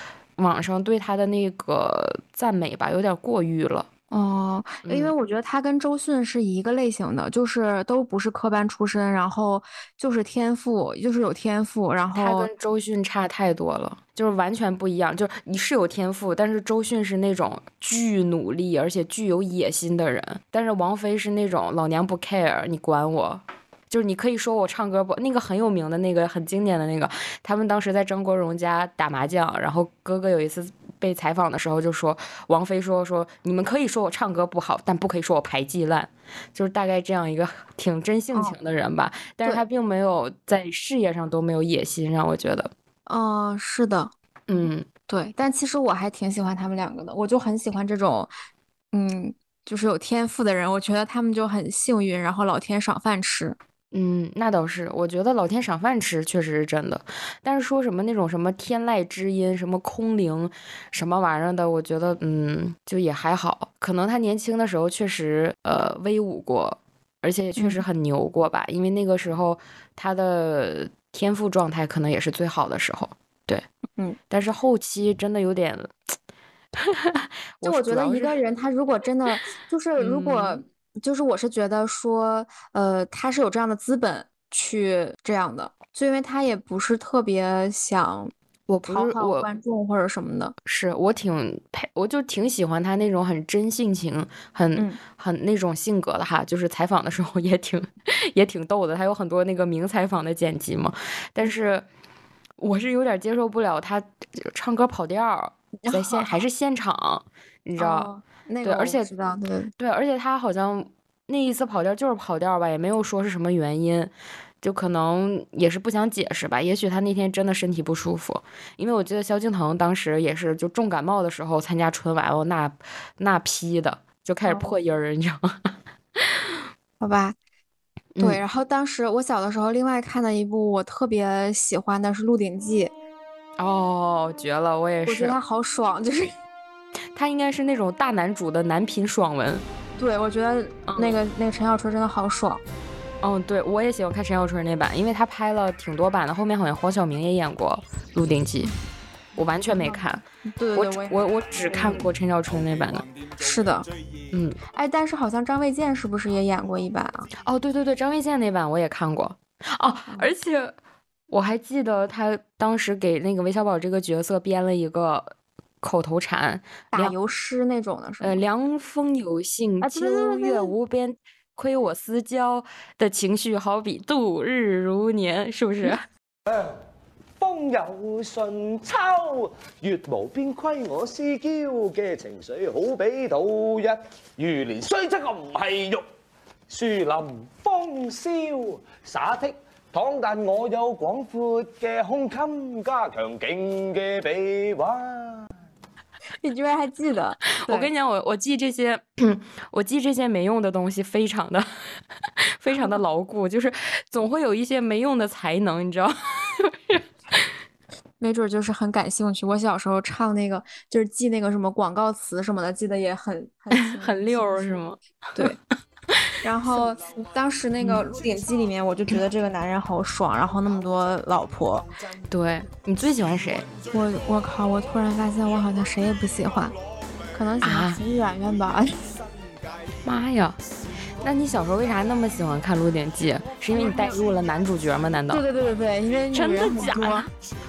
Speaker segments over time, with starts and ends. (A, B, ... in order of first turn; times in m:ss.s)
0:00.4-0:03.9 A
0:04.1-0:12.5 B
0:04.8-0:05.1 A
0:12.2-0:42.7 A
0:43.1-0:44.1 B
0:44.5-0:44.9 A
0:45.1-0:48.3 B
0:48.9-0:53.6 B
0:53.9-1:13.7 A
1:07.6-1:07.8 B
1:14.3-1:16.0 A
1:16.8-1:18.4 A
1:17.6-1:28.3 B
1:20.0-1:20.6 A
1:28.7-1:29.5 A
1:28.8-1:30.5 B
1:30.6-1:41.8 A
1:42.6-1:48.1 A
1:45.8-1:46.4 B
1:47.8-1:49.7 B
1:48.6-1:49.1 A
1:49.8-2:06.5 A
2:04.5-2:04.7 B
2:07.0-2:07.4 B
2:08.2-2:08.4 A
2:08.2-2:12.9 B
2:13.6-2:15.4 A
2:15.1-2:16.4 B
2:17.2-2:19.6 A
2:20.0-2:22.6 B
2:20.9-2:21.2 A
2:23.2-2:28.7 A
2:29.4-2:30.2 A
2:29.8-2:32.1 B
2:30.7-2:33.1 A
2:33.4-2:33.9 B
2:34.3-2:34.6 A
2:34.7-2:37.3 B
2:37.4-2:40.8 A
2:41.3-2:47.2 A
2:46.9-2:48.4 B
2:48.2-2:56.0 A
2:49.8-2:50.7 B
2:57.4-3:06.0 C
3:06.7-3:15.5 C
3:16.4-3:17.9 B
3:17.5-3:27.0 A
3:28.2-3:34.4 B
3:33.7-3:35.5 A
3:36.4-3:41.9 B
3:37.8-3:38.0 A
3:42.3-3:43.7 A
3:43.9-3:46.8 B
3:47.3-3:49.2 B
3:47.6-3:48.0 A
3:50.0-3:50.6 A
3:51.2-3:55.4 A
3:53.7-3:54.2 B
3:55.3-3:57.3 B
3:56.3-3:57.3 A